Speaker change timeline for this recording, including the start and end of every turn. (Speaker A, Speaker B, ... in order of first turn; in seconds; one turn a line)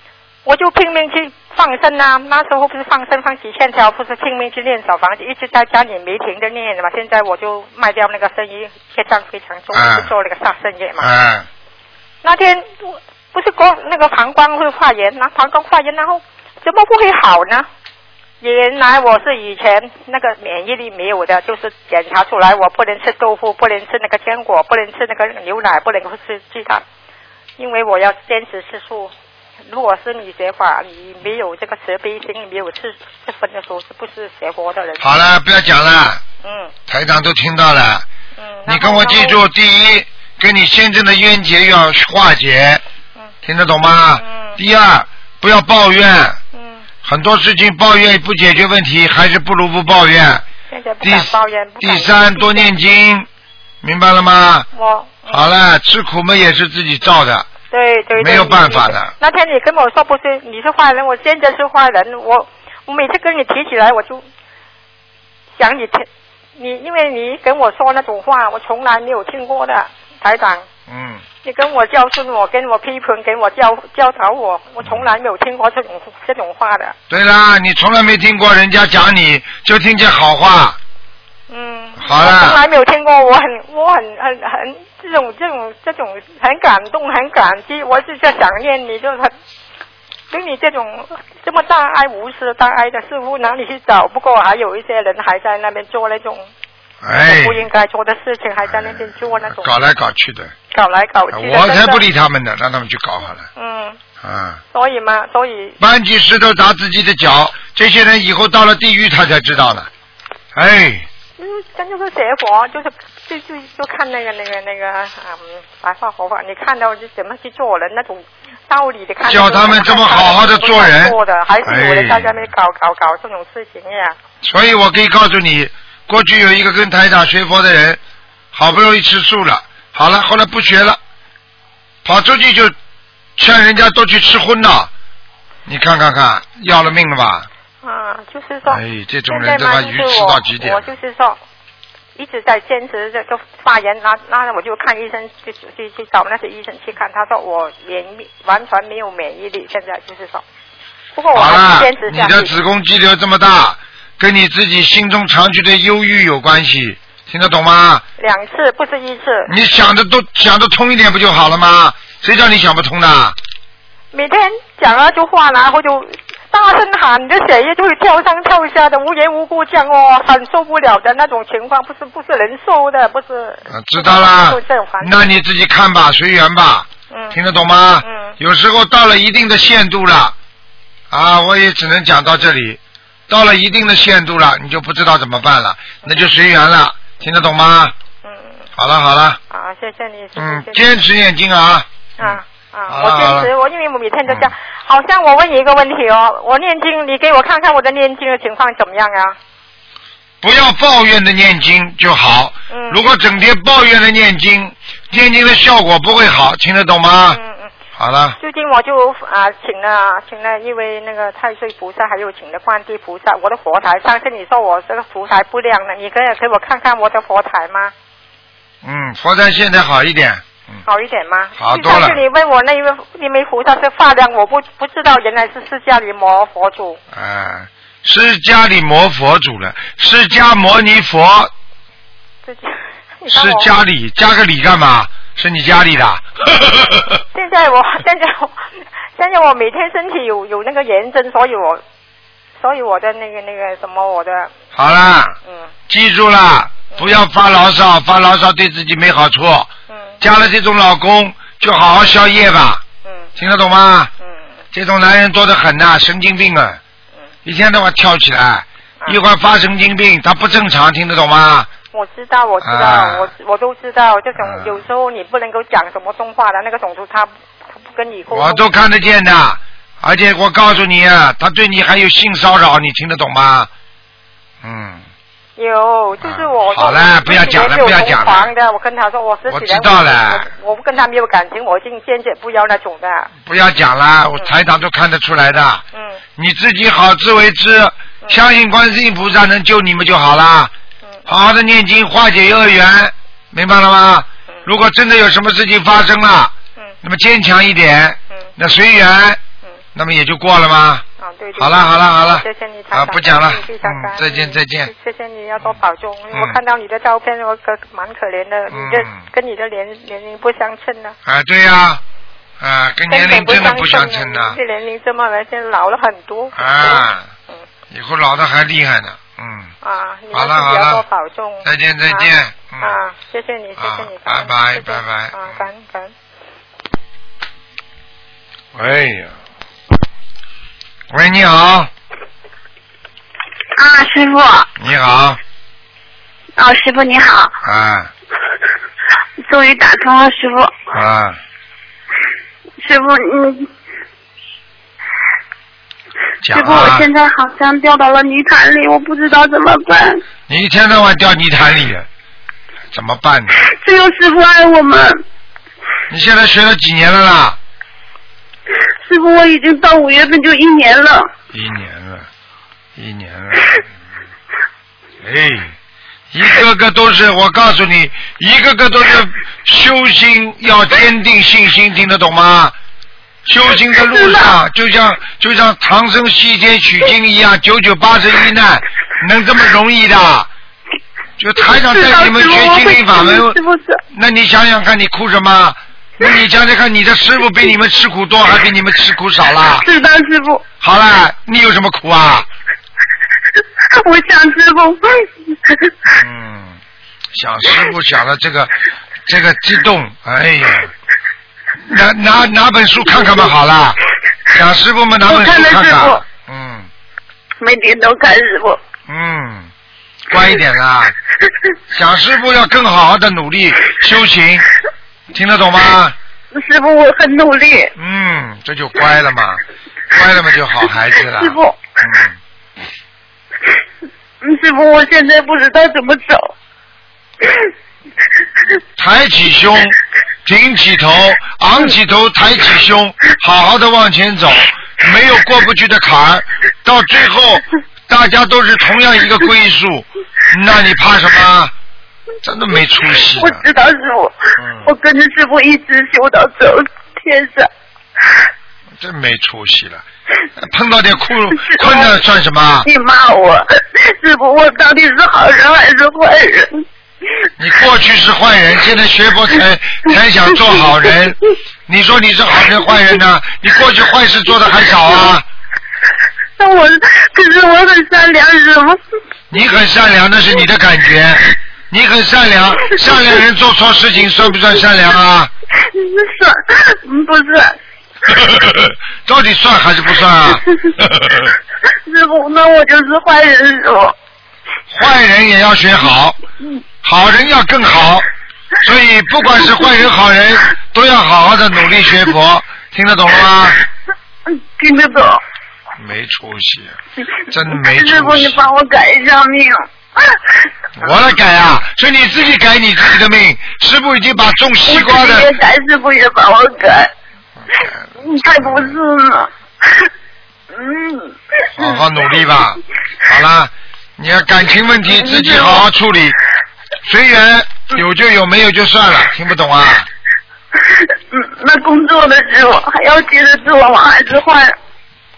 Speaker A: 0.5-11.1
Speaker B: 9.7-10.1
Speaker B: 11.0-11.5
Speaker A: 12.2-17.7
Speaker A: 18.4-26.8
Speaker A: 27.6-29.1
Speaker A: 29.7-35.1
Speaker B: 35.0-36.2
Speaker A: 36.4-36.7
Speaker B: 36.9-38.1
Speaker A: 38.4-39.4
Speaker B: 38.7-42.8
Speaker B: 43.4-46.4
Speaker A: 44.2-44.6
Speaker A: 46.5-46.9
Speaker B: 47.0-50.5
Speaker A: 50.7-52.7
Speaker B: 51.0-53.3
Speaker B: 53.8-54.7
Speaker A: 54.7-55.4
Speaker B: 55.3-57.5
Speaker A: 57.7-64.3
Speaker B: 58.2-59.1
Speaker A: 65.6-70.7
Speaker B: 70.9-71.2
Speaker A: 71.4-77.0
Speaker B: 77.1-80.8
Speaker A: 81.5-89.3
Speaker B: 82.0-82.6
Speaker A: 90.3-96.5
Speaker B: 97.0-97.7
Speaker A: 97.1-99.7
Speaker B: 98.7-100.5
Speaker A: 100.7-102.0
Speaker B: 101.3-103.5
Speaker A: 103.5-104.0
Speaker B: 104.2-104.6
Speaker A: 104.7-105.8
Speaker B: 105.8-109.9
Speaker B: 110.5-111.1
Speaker A: 111.4-124.2
Speaker B: 119.3-122.5
Speaker B: 124.4-128.0
Speaker B: 128.5-131.0
Speaker B: 132.1-132.8
Speaker B: 133.4-134.9
Speaker B: 135.7-137.5
Speaker A: 137.8-141.4
Speaker B: 138.7-140.9
Speaker A: 142.2-150.4
Speaker A: 151.2-152.5
Speaker B: 151.3-158.0
Speaker A: 158.2-159.5
Speaker B: 159.5-163.4
Speaker A: 164.1-175.3
Speaker B: 173.7-180.3
Speaker A: 177.1-177.4
Speaker A: 178.0-178.3
Speaker B: 181.1-187.9
Speaker A: 188.2-188.7
Speaker B: 188.8-189.4
Speaker A: 189.5-190.9
Speaker B: 190.4-193.5
Speaker A: 192.2-199.4
Speaker B: 200.4-207.4
Speaker A: 202.7-203.0
Speaker A: 207.3-207.7
Speaker B: 208.0-208.4
Speaker A: 208.4-217.9
Speaker B: 218.8-220.8
Speaker A: 220.8-227.0
Speaker B: 221.6-222.2
Speaker B: 227.1-231.5
Speaker A: 232.4-233.7
Speaker B: 233.3-237.2
Speaker A: 237.3-238.6
Speaker A: 239.2-241.8
Speaker A: 242.6-244.5
Speaker B: 244.8-245.4
Speaker B: 245.9-249.7
Speaker A: 246.9-247.2
Speaker B: 250.2-252.8
Speaker B: 253.4-254.1
Speaker B: 254.7-256.8
Speaker B: 257.4-261.7
Speaker A: 261.9-268.7
Speaker B: 262.6-263.3
Speaker B: 264.4-264.8
Speaker B: 268.3-273.7
Speaker B: 274.6-275.1
Speaker A: 275.6-283.3
Speaker B: 276.2-278.5
Speaker B: 279.5-280.5
Speaker B: 283.4-285.8
Speaker A: 285.9-286.2
Speaker B: 286.4-290.7
Speaker B: 291.3-299.4
Speaker B: 299.9-301.1
Speaker A: 301.2-311.2
Speaker B: 301.6-304.9
Speaker B: 306.3-306.6
Speaker B: 308.7-309.3
Speaker B: 311.3-312.0
Speaker B: 312.6-314.6
Speaker A: 313.1-317.6
Speaker B: 316.6-317.3
Speaker B: 317.9-319.7
Speaker A: 319.8-326.1
Speaker B: 320.3-321.0
Speaker B: 321.6-323.0
Speaker B: 323.8-325.6
Speaker B: 328.7-329.4
Speaker B: 331.1-331.9
Speaker C: 333.8-334.7
Speaker B: 334.8-335.4
Speaker C: 336.6-337.6
Speaker B: 337.6-338.1
Speaker C: 339.4-340.7
Speaker B: 340.9-341.4
Speaker C: 342.8-343.7
Speaker B: 346.4-347.1
Speaker C: 346.5-350.2
Speaker B: 350.5-352.1
Speaker B: 352.9-353.6
Speaker C: 353.7-355.2
Speaker B: 356.1-357.6
Speaker C: 359.0-361.3
Speaker B: 361.5-362.3
Speaker B: 363.0-363.8
Speaker B: 365.2-365.7
Speaker B: 366.3-372.8
Speaker B: 373.5-380.5
Speaker C: 373.9-374.6
Speaker B: 381.4-383.6
Speaker C: 381.8-384.0
Speaker B: 384.1-389.9
Speaker C: 389.8-390.6
Speaker B: 390.8-392.5
Speaker C: 393.9-395.9
Speaker B: 396.2-396.8
Speaker B: 397.3-398.7
Speaker B: 399.3-400.9
Speaker B: 401.8-404.0
Speaker B: 404.5-406.9
Speaker C: 405.3-406.2
Speaker C: 407.6-408.8
Speaker B: 409.1-409.7
Speaker B: 410.3-411.1
Speaker B: 411.9-414.7
Speaker B: 415.3-416.2
Speaker C: 416.5-417.9
Speaker B: 418.0-422.4
Speaker C: 421.2-421.8
Speaker C: 424.4-426.5
Speaker B: 429.0-441.7
Speaker B: 442.4-443.6
Speaker C: 443.3-447.7
Speaker B: 444.6-444.9
Speaker B: 449.0-450.1
Speaker B: 450.6-452.9
Speaker C: 451.5-452.2
Speaker C: 452.9-456.8
Speaker B: 457.6-465.5
Speaker C: 460.7-461.1
Speaker C: 466.6-469.0
Speaker B: 469.5-475.5
Speaker C: 475.8-477.8
Speaker B: 478.3-481.5
Speaker C: 482.1-484.1
Speaker B: 484.9-486.4
Speaker B: 487.0-488.3
Speaker B: 488.8-493.8
Speaker C: 494.5-495.4
Speaker B: 496.0-497.0
Speaker B: 497.5-498.7
Speaker C: 497.7-500.4
Speaker B: 501.0-505.5
Speaker C: 504.9-507.1
Speaker B: 507.6-509.0
Speaker C: 508.2-510.1
Speaker C: 510.7-512.0
Speaker B: 511.8-516.4
Speaker C: 515.1-515.8
Speaker B: 517.0-520.1
Speaker C: 521.3-524.8